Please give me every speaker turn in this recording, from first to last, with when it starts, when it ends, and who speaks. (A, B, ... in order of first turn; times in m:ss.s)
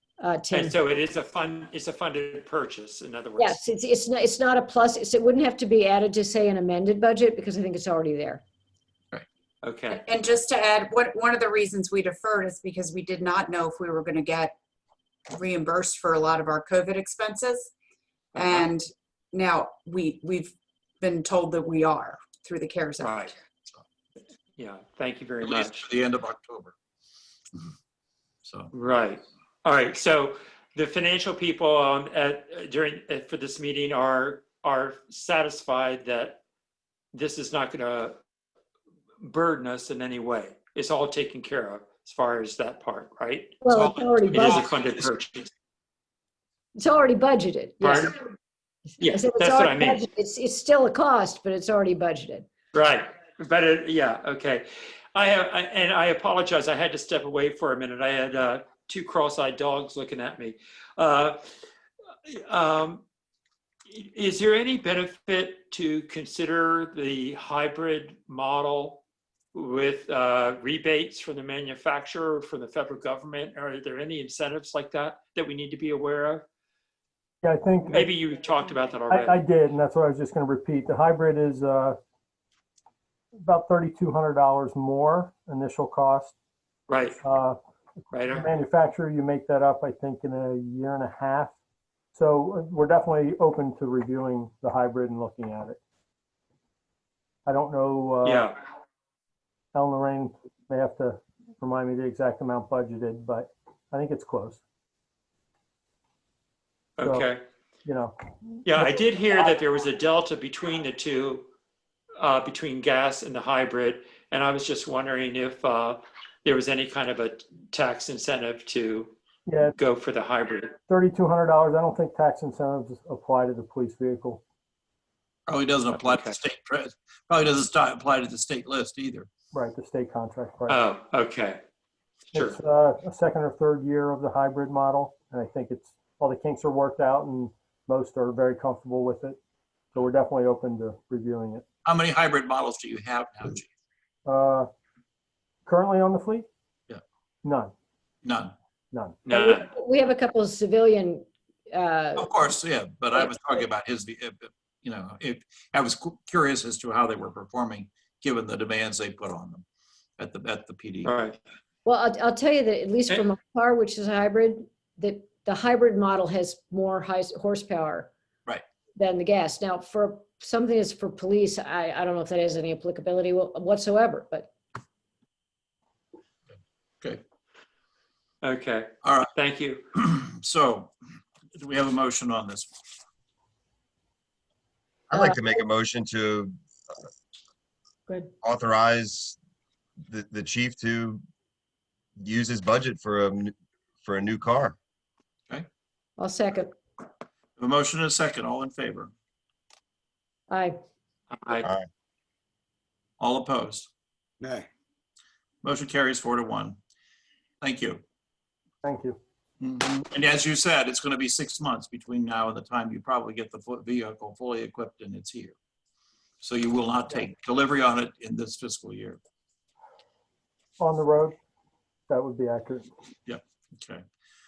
0:00.2-0:00.8 A
0:00.5-0:03.6 B
0:03.4-0:08.4 A
0:09.6-0:10.0 B
0:09.9-0:14.5 C
0:15.3-0:17.7 C
0:18.4-0:23.3 C
0:23.0-0:23.3 B
0:24.6-0:25.8 B
0:25.4-0:26.8 D
0:28.4-0:28.7 D
0:28.7-0:36.4 B
0:37.1-0:38.2 B
0:39.2-0:45.5 B
0:43.6-0:44.6 A
0:44.2-0:45.0 D
0:46.8-0:48.2 A
0:47.8-0:48.1 B
0:49.0-0:50.0 B
0:49.0-0:52.5 A
0:52.7-1:01.4 B
1:02.3-1:03.0 B
1:03.9-1:09.0 B
1:09.5-1:16.4 B
1:17.4-1:18.1 E
1:17.9-1:19.4 B
1:19.1-1:22.0 E
1:23.4-1:26.3 E
1:26.9-1:27.2 B
1:27.2-1:27.6 E
1:28.1-1:28.5 B
1:28.2-1:31.5 E
1:32.1-1:35.8 E
1:37.4-1:38.5 E
1:38.2-1:38.6 B
1:39.7-1:44.6 E
1:47.0-1:47.4 B
1:47.0-1:47.3 E
1:47.9-1:48.2 E
1:48.6-1:51.5 B
1:48.7-1:49.1 E
1:52.2-1:59.1 B
1:59.4-1:59.8 E
1:59.8-2:00.8 B
2:00.9-2:04.4 E
2:05.5-2:09.3 D
2:05.9-2:06.4 B
2:09.5-2:10.8 E
2:10.7-2:11.6 B
2:12.3-2:19.4 E
2:19.9-2:21.6 E
2:21.8-2:23.7 D
2:24.2-2:24.7 E
2:25.7-2:26.5 E
2:27.4-2:27.7 E
2:28.2-2:28.5 D
2:28.9-2:29.2 E
2:29.2-2:29.7 B
2:29.3-2:32.3 A
2:32.2-2:39.6 D
2:40.2-2:41.1 D
2:41.0-2:41.4 B
2:41.8-2:48.1 A
2:49.0-2:54.5 A
2:58.4-2:59.8 B
2:59.0-2:59.3 D
2:59.9-3:00.9 D
3:01.6-3:02.7 D
3:05.1-3:06.6 F
3:08.4-3:09.4 F
3:10.1-3:11.2 F
3:12.2-3:14.8 F
3:16.2-3:16.8 A
3:17.6-3:19.1 D
3:20.5-3:20.8 A
3:21.3-3:21.7 B
3:21.6-3:21.9 F
3:23.2-3:23.9 D
3:25.6-3:26.8 D
3:27.6-3:28.0 D
3:28.8-3:29.2 E
3:29.6-3:35.5 D
3:36.4-3:39.2 D
3:40.8-3:41.4 E
3:42.1-3:42.9 E
3:43.3-3:44.0 D